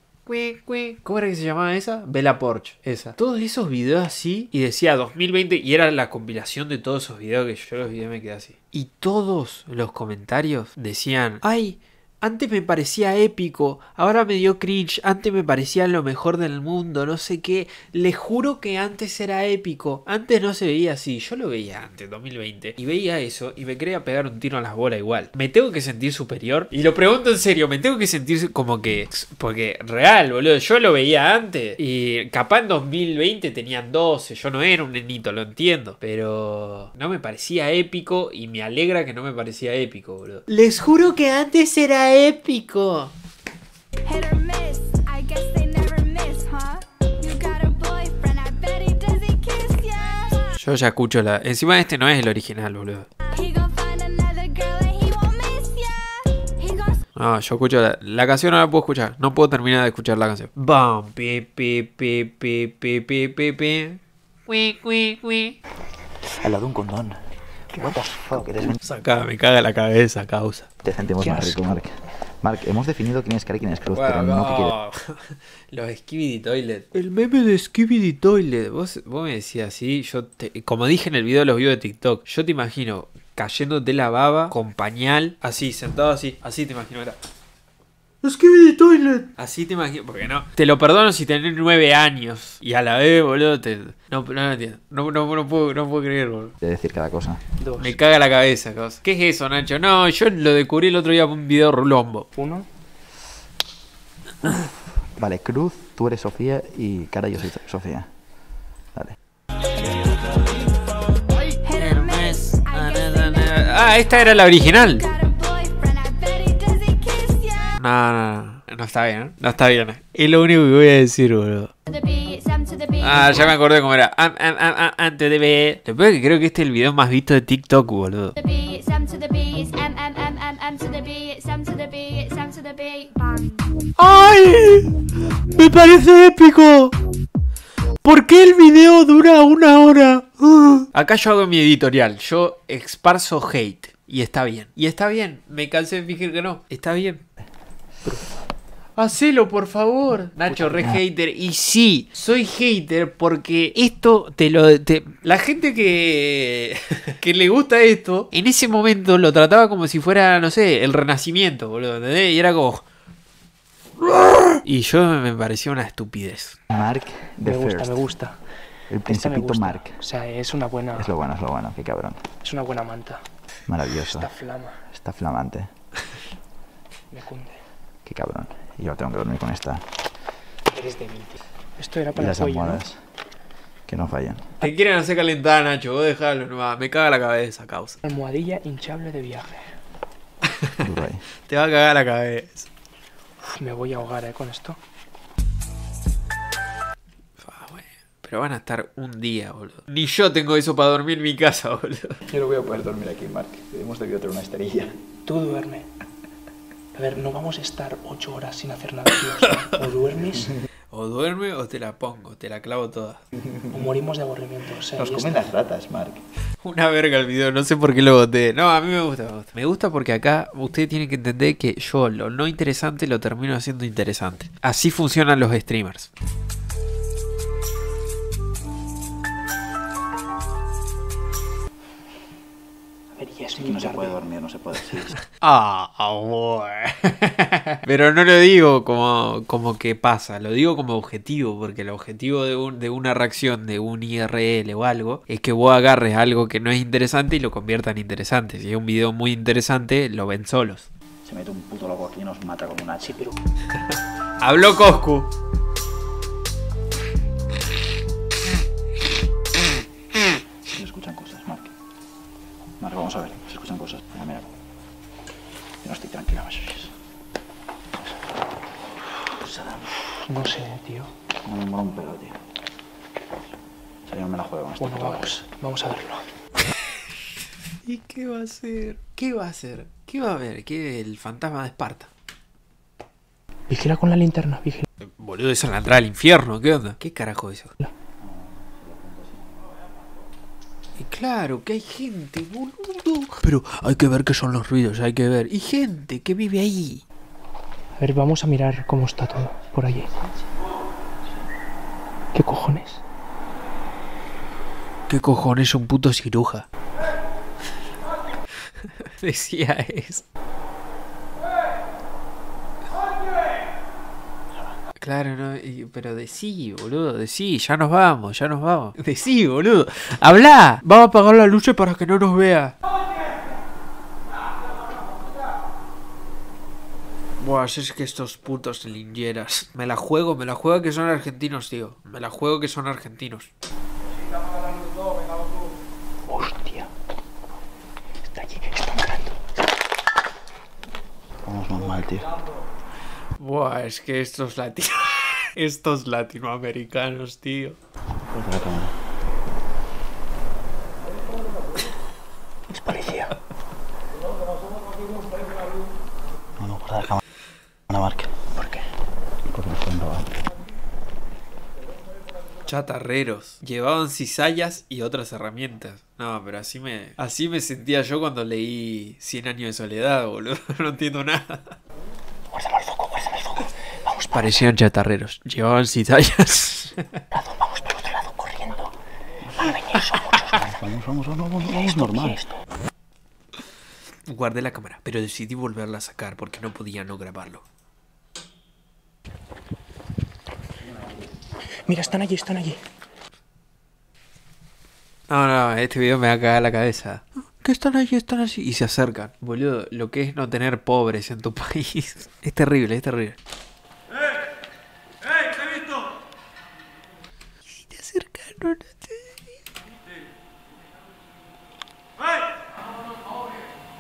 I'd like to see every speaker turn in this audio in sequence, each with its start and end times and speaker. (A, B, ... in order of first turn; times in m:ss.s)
0:00.3-0:43.1 A
0:44.1-0:50.5 B
0:50.6-0:53.1 A
0:53.3-0:57.0 B
0:57.2-1:05.6 A
1:06.3-1:07.2 C
1:07.7-1:08.8 C
1:08.8-1:10.7 A
1:10.8-1:14.8 C
1:11.2-1:11.8 D
1:13.9-1:27.2 A
1:28.2-1:36.5 A
1:36.6-1:37.4 C
1:37.6-1:38.0 D
1:37.8-1:42.3 A
1:42.4-1:42.7 D
1:45.2-1:48.1 C
1:51.6-1:57.8 B
1:51.7-1:55.0 A
1:57.8-2:01.7 A
2:01.9-2:03.6 B
2:03.0-2:08.3 A
2:08.3-2:13.7 B
2:14.0-2:17.0 A
2:18.0-2:27.2 A
2:29.0-2:42.8 A
2:30.7-2:31.0 C
2:44.6-2:46.6 A
2:46.7-2:48.0 C
2:47.4-2:48.4 D
2:48.9-2:50.0 C
2:49.1-2:51.1 D
2:51.0-2:52.2 C
2:52.4-2:53.2 D
2:53.7-2:54.3 C
2:53.9-2:54.8 D
2:54.9-2:55.7 C
2:57.1-2:57.6 D
2:58.0-2:59.8 C
3:00.7-3:02.8 D
3:02.2-3:03.0 C
3:03.9-3:04.6 C
3:04.6-3:08.0 A
3:08.0-3:09.8 D
3:10.5-3:10.9 A
3:10.8-3:11.2 C
3:11.5-3:12.7 A
3:13.4-3:14.8 D
3:17.4-3:22.2 A
3:22.3-3:24.9 C
3:25.3-3:25.9 D
3:26.9-3:30.6 D
3:30.9-3:33.2 A
3:33.4-3:33.9 C
3:33.7-3:35.5 D
3:35.0-3:36.2 C
3:36.6-3:46.1 A
3:53.2-3:54.2 D
3:53.6-3:55.2 C
3:55.3-4:10.9 A
4:11.2-4:13.2 C
4:13.0-4:13.4 D
4:14.4-4:15.3 A
4:20.7-4:21.7 C
4:22.8-4:24.5 C
4:25.8-4:26.9 C
4:29.4-4:29.8 C
4:30.1-4:31.1 D
4:31.4-4:32.4 C
4:34.1-4:35.4 C
4:34.8-4:36.3 D
4:37.8-4:42.1 A
4:43.7-4:44.9 D
4:45.0-4:47.7 A
4:48.2-4:49.5 C
4:51.0-4:57.0 A
4:58.0-5:00.2 D
5:02.3-5:03.0 D
5:05.1-5:06.7 A
5:09.2-5:10.2 A
5:15.0-5:22.8 A
5:27.4-5:33.5 A
5:36.3-5:36.9 D
5:38.3-5:39.4 D
5:41.4-5:42.3 C
5:43.4-5:47.8 A
5:48.3-5:48.9 C
5:52.7-5:53.3 D
5:56.6-5:57.2 C
5:57.9-5:58.9 C
5:59.4-6:00.3 C
6:02.7-6:11.8 A
6:12.5-6:14.7 D
6:14.3-6:17.1 A
6:17.3-6:18.9 D
6:19.6-6:20.6 D
6:20.5-6:22.4 C
6:21.9-6:22.6 D
6:24.3-6:27.6 A
6:31.8-6:32.8 D
6:35.3-6:43.4 A
6:47.7-6:49.4 A